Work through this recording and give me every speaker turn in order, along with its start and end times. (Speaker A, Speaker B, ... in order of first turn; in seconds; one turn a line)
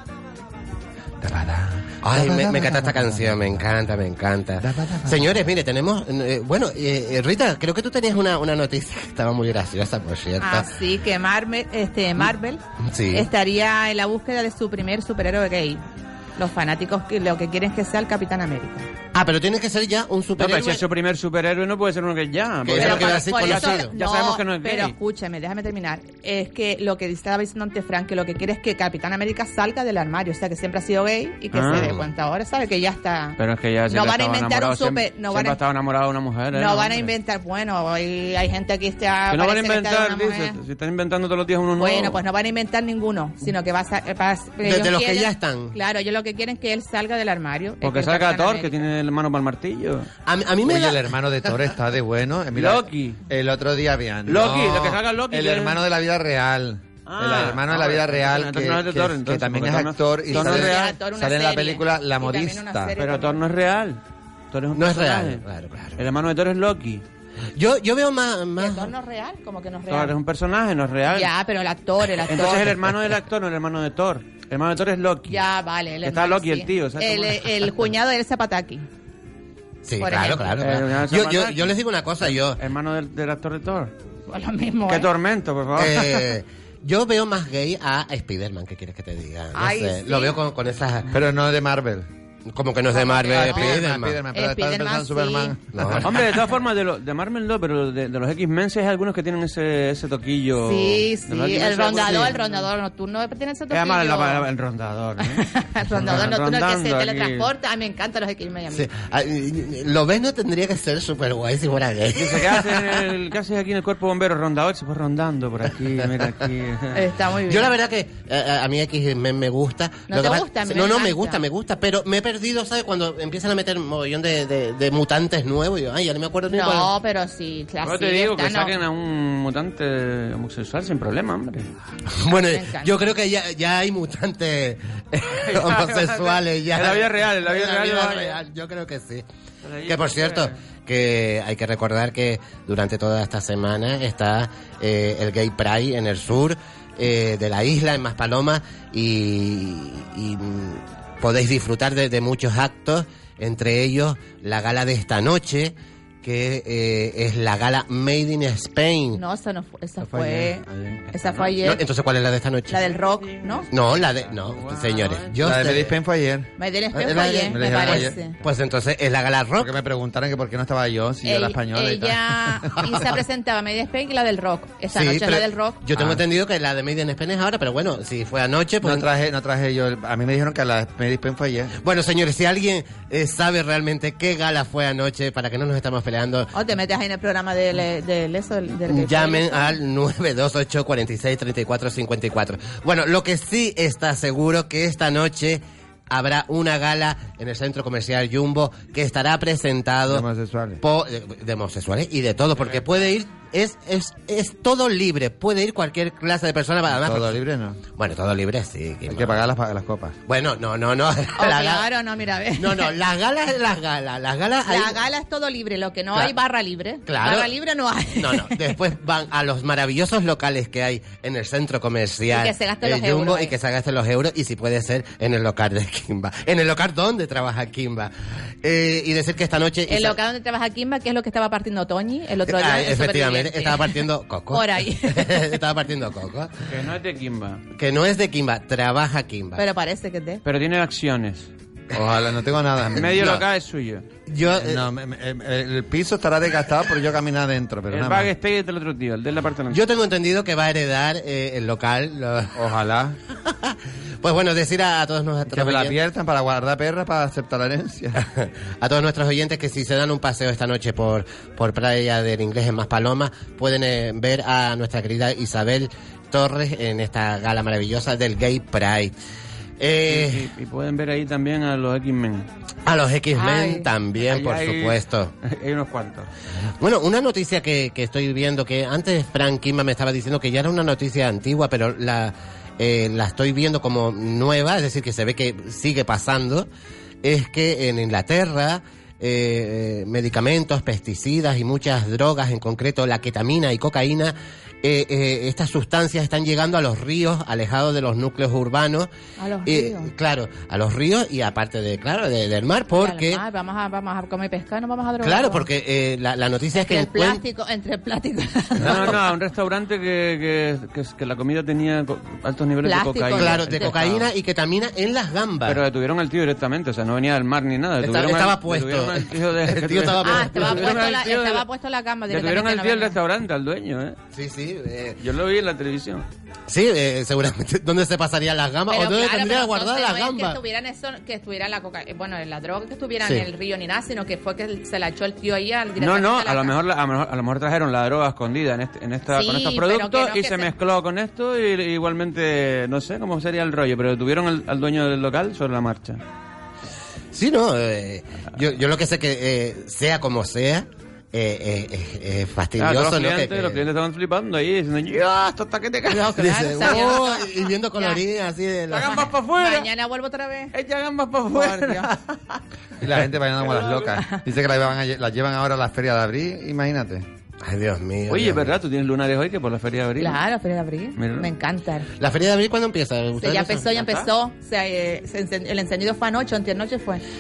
Speaker A: 1.2-3.6
Speaker B: 2.0-10.7
Speaker A: 4.6-5.4
Speaker C: 10.4-12.6
Speaker B: 12.9-13.3
Speaker C: 13.1-15.8
Speaker C: 16.4-18.9
Speaker B: 19.1-20.8
Speaker D: 20.4-24.9
Speaker B: 22.6-23.9
Speaker C: 22.8-33.4
Speaker D: 31.5-31.9
Speaker D: 33.4-37.1
Speaker C: 33.9-35.6
Speaker C: 36.5-40.6
Speaker D: 39.3-42.2
Speaker C: 41.8-48.8
Speaker B: 44.6-45.8
Speaker D: 47.8-50.1
Speaker B: 50.3-51.1
Speaker A: 50.6-63.0
Speaker D: 52.5-53.2
Speaker D: 54.3-55.8
Speaker D: 57.1-61.0
Speaker C: 60.3-63.4
Speaker D: 63.0-64.0
Speaker D: 64.5-65.4
Speaker B: 64.7-66.0
Speaker D: 66.0-67.0
Speaker B: 67.6-68.9
Speaker C: 68.6-70.2
Speaker D: 69.9-71.3
Speaker C: 71.1-72.8
Speaker D: 72.3-75.4
Speaker C: 75.3-78.8
Speaker D: 76.0-77.7
Speaker B: 79.8-82.6
Speaker C: 80.0-80.5
Speaker D: 80.6-83.9
Speaker C: 84.3-85.1
Speaker D: 84.9-86.3
Speaker B: 85.8-91.1
Speaker C: 89.5-90.4
Speaker A: 91.1-92.1
Speaker B: 92.5-94.2
Speaker C: 92.9-93.8
Speaker A: 93.2-96.2
Speaker C: 94.3-95.5
Speaker B: 95.7-96.2
Speaker D: 96.0-102.7
Speaker C: 100.6-104.5
Speaker D: 103.7-107.5
Speaker C: 105.3-108.9
Speaker B: 108.7-113.0
Speaker D: 112.2-117.0
Speaker C: 116.9-117.7
Speaker B: 117.5-126.9
Speaker C: 120.1-121.4
Speaker C: 126.5-128.8
Speaker D: 127.8-131.7
Speaker B: 132.1-139.2
Speaker C: 132.5-132.9
Speaker D: 135.4-138.4
Speaker D: 139.6-140.6
Speaker B: 139.9-159.2
Speaker C: 159.2-161.8
Speaker A: 160.0-161.0
Speaker D: 161.2-161.5
Speaker B: 161.6-162.8
Speaker C: 162.7-163.7
Speaker D: 162.9-165.4
Speaker B: 163.7-165.9
Speaker A: 165.4-166.5
Speaker C: 166.6-168.4
Speaker B: 166.9-169.7
Speaker A: 167.1-168.2
Speaker A: 169.6-172.9
Speaker C: 171.2-175.8
Speaker B: 174.9-179.1
Speaker A: 175.9-176.2
Speaker A: 178.8-181.7
Speaker B: 181.8-186.5
Speaker C: 186.5-189.8
Speaker B: 188.9-200.3
Speaker A: 200.1-200.8
Speaker B: 200.8-207.4
Speaker A: 206.9-207.8
Speaker B: 207.9-209.4
Speaker A: 209.1-210.2
Speaker B: 210.3-211.9
Speaker C: 211.4-212.9
Speaker B: 212.6-215.0
Speaker C: 214.7-218.7
Speaker B: 217.1-217.5
Speaker B: 218.2-228.1
Speaker C: 222.3-223.5
Speaker B: 228.6-230.2
Speaker C: 229.9-234.0
Speaker B: 232.5-236.5
Speaker C: 234.5-235.5
Speaker D: 236.7-237.6
Speaker B: 237.7-239.6
Speaker C: 239.6-240.4
Speaker D: 240.4-241.5
Speaker A: 241.9-243.4
Speaker D: 242.9-244.0
Speaker B: 244.3-244.8
Speaker A: 244.5-248.3
Speaker D: 247.9-249.8
Speaker B: 249.7-252.5
Speaker A: 252.6-253.2
Speaker B: 253.4-256.0
Speaker A: 255.5-258.2
Speaker B: 258.2-269.2
Speaker B: 269.8-270.5
Speaker D: 270.1-272.5
Speaker B: 272.9-275.3
Speaker C: 273.4-273.9
Speaker D: 274.2-276.3
Speaker B: 276.8-286.7
Speaker B: 287.2-299.1
Speaker C: 299.4-300.1
Speaker B: 299.7-303.4
Speaker C: 302.9-305.6
Speaker B: 305.2-307.4
Speaker C: 306.8-309.1
Speaker D: 308.8-314.3
Speaker B: 308.9-309.1
Speaker C: 312.8-314.0
Speaker B: 313.3-315.8
Speaker D: 315.7-321.7
Speaker B: 318.0-321.1
Speaker C: 320.2-323.2
Speaker D: 322.3-324.2
Speaker B: 324.3-325.2
Speaker D: 325.2-326.3
Speaker B: 326.7-330.6
Speaker C: 328.9-336.8
Speaker D: 336.0-346.2
Speaker C: 339.3-340.7
Speaker B: 347.3-353.8
Speaker D: 352.8-357.2
Speaker C: 356.1-358.2
Speaker B: 356.4-359.3
Speaker D: 358.9-359.9
Speaker C: 358.9-360.7
Speaker D: 360.7-362.2
Speaker C: 361.5-362.1
Speaker A: 363.0-367.3
Speaker D: 363.6-364.2
Speaker B: 367.6-368.7
Speaker D: 368.3-370.4
Speaker C: 370.2-372.1
Speaker D: 371.2-371.5
Speaker B: 372.2-373.9
Speaker C: 373.4-377.2
Speaker D: 373.9-374.3